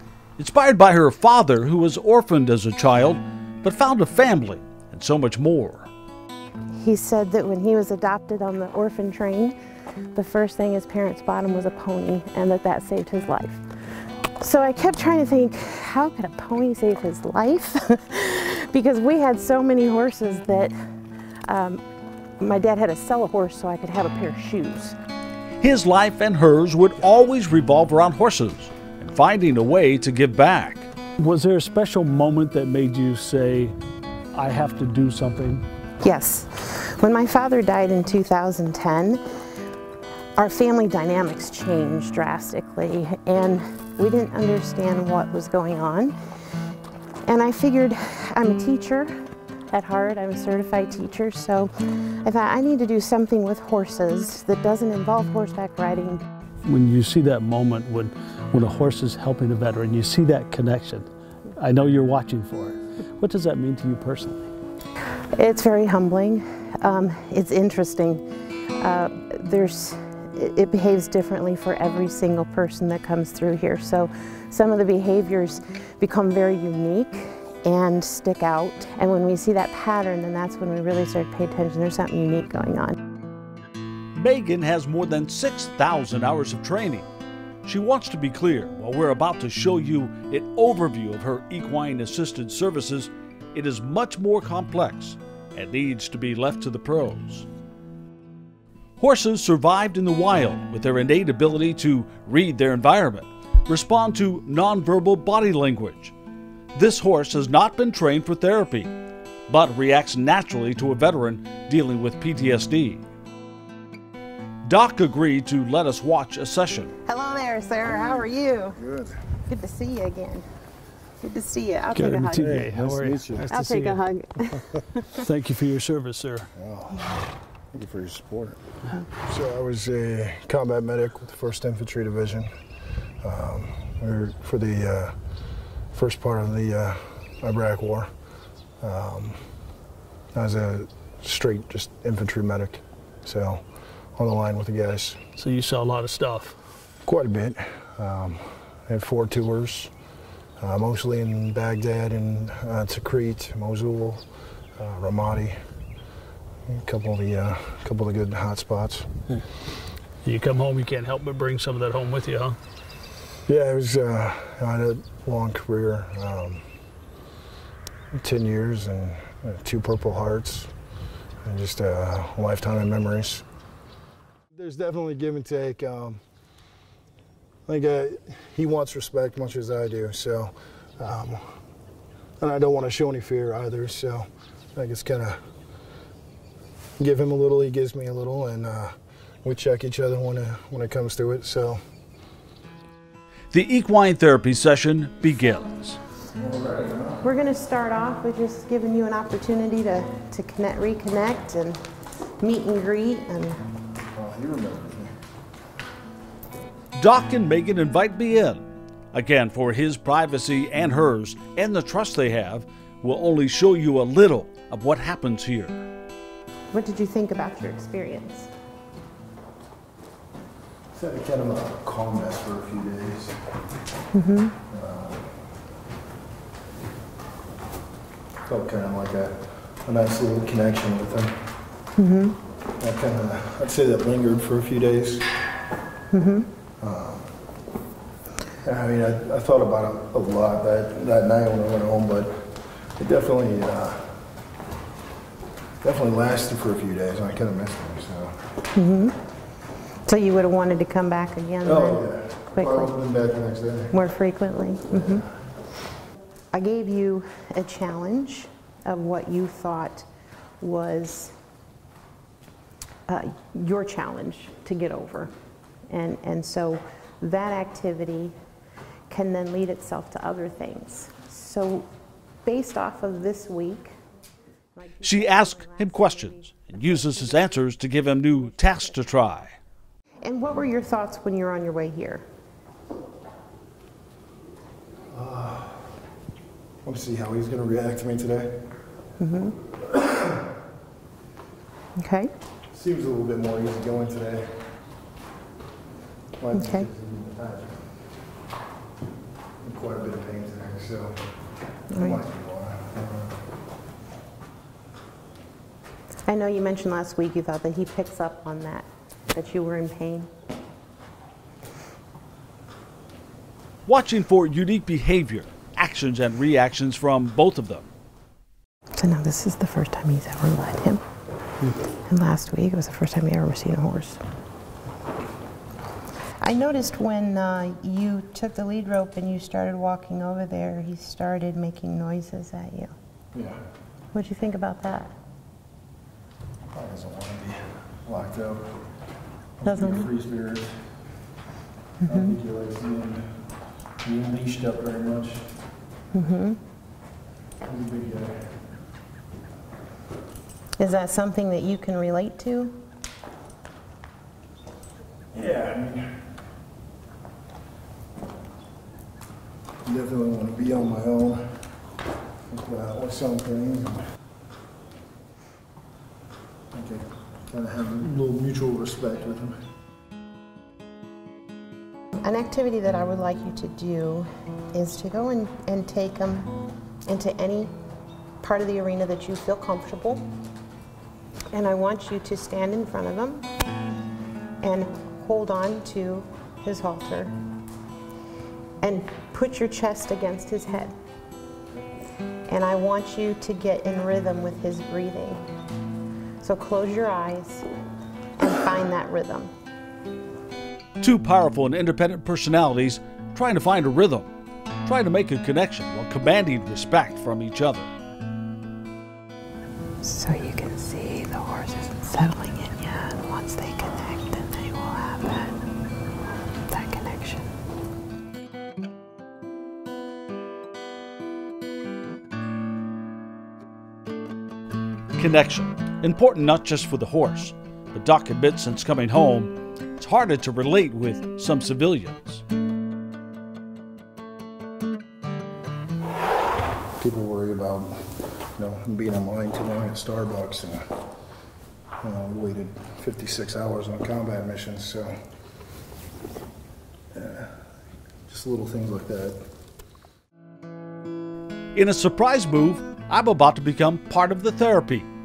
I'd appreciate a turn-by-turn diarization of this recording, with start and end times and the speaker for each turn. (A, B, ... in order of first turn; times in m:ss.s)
0:00.4-0:05.9 A
0:06.7-0:09.6 B
0:10.2-0:13.6 B
0:14.4-0:20.7 B
0:21.5-0:21.8 B
0:22.4-0:25.0 B
0:25.6-0:30.9 A
0:31.2-0:33.8 C
0:34.3-0:35.6 C
0:36.0-0:39.2 B
0:40.4-0:46.2 B
0:47.3-0:49.2 B
0:49.7-0:56.2 B
0:56.6-1:04.5 C
1:05.3-1:08.2 B
1:08.8-1:23.0 B
1:24.2-1:27.1 A
1:27.6-1:37.5 A
1:39.0-1:46.1 A
1:46.7-1:48.9 A
1:49.5-1:53.0 A
1:54.6-1:56.9 A
1:57.1-1:58.8 B
1:58.8-1:59.2 D
1:59.5-2:00.5 B
2:01.2-2:02.7 B
2:02.0-2:04.0 C
2:02.4-2:03.5 D
2:03.5-2:05.2 B
2:05.1-2:06.5 C
2:06.6-2:07.2 D
2:07.7-2:08.6 D
2:09.2-2:12.5 D
2:13.2-2:15.2 D
2:15.9-2:18.1 D
2:18.8-2:19.4 D
2:20.4-2:23.6 D
2:24.2-2:25.2 D
2:25.4-2:26.6 C
2:27.0-2:29.9 D
2:30.6-2:34.2 D
2:34.8-2:35.6 D
2:36.7-2:39.1 D
2:40.2-2:42.6 C
2:43.5-2:46.6 D
2:48.1-2:50.7 D
2:51.4-2:53.4 D
2:54.6-2:56.2 D
2:57.7-3:01.5 D
3:02.4-3:05.4 D
3:07.0-3:11.8 D
3:13.5-3:16.0 A
3:16.4-3:17.2 D
3:17.2-3:21.8 B
3:22.4-3:23.6 B
3:24.1-3:25.1 D
3:27.0-3:35.8 A
3:36.7-3:38.5 B
3:40.9-3:43.4 D
3:44.1-3:44.6 B
3:44.7-3:45.3 D
3:48.5-3:51.4 D
3:52.0-3:52.4 B
3:52.8-3:55.3 D
3:56.1-3:56.5 B
3:56.8-3:57.3 D
3:58.6-4:04.1 D
4:05.8-4:08.3 D
4:08.7-4:09.2 B
4:10.1-4:12.9 B
4:11.6-4:13.9 D
4:13.9-4:15.2 B
4:14.9-4:15.3 D
4:16.5-4:20.1 B
4:20.6-4:21.4 B
4:23.1-4:25.3 B
4:25.9-4:28.3 B
4:29.1-4:31.9 B
4:32.4-4:34.0 B
4:34.8-4:37.6 B
4:35.0-4:39.6 A
4:40.2-4:42.2 B
4:45.1-4:45.8 D
4:46.8-4:48.6 D
4:49.2-4:49.6 B
4:49.9-4:50.3 D
4:52.0-4:52.3 B
4:52.7-4:54.6 D
4:56.4-4:57.8 D
4:56.5-4:56.9 B
4:59.6-5:01.2 D
5:01.9-5:02.2 B
5:01.9-5:03.4 D
5:06.2-5:10.3 B
5:13.9-5:17.9 A
5:19.0-5:21.0 B
5:21.9-5:24.2 B
5:26.4-5:32.9 B
5:34.1-5:35.1 B
5:36.7-5:38.7 D
5:39.6-5:40.7 D
5:39.6-5:40.1 B
5:42.0-5:43.4 D
5:44.0-5:45.5 D
5:46.1-5:46.6 B
5:47.6-5:48.6 D
5:50.8-5:52.8 B
5:55.3-5:56.2 D
5:59.8-6:01.4 D
6:02.5-6:04.0 D
6:06.7-6:09.6 D
6:12.2-6:16.5 B
6:17.1-6:17.7 B
6:18.4-6:20.3 B
6:21.5-6:23.4 B
6:24.6-6:27.3 B
6:28.8-6:31.0 B
6:32.5-6:35.4 B
6:36.4-6:37.7 B
6:38.4-6:39.5 B
6:41.0-6:44.3 A
6:44.8-6:47.9 A
6:50.0-6:55.6 B
6:56.7-6:57.5 B
7:05.2-7:12.4 A
7:17.0-7:20.8 D
7:22.0-7:25.2 D
7:27.1-7:27.6 D
7:28.3-7:29.4 D
7:31.8-7:35.1 A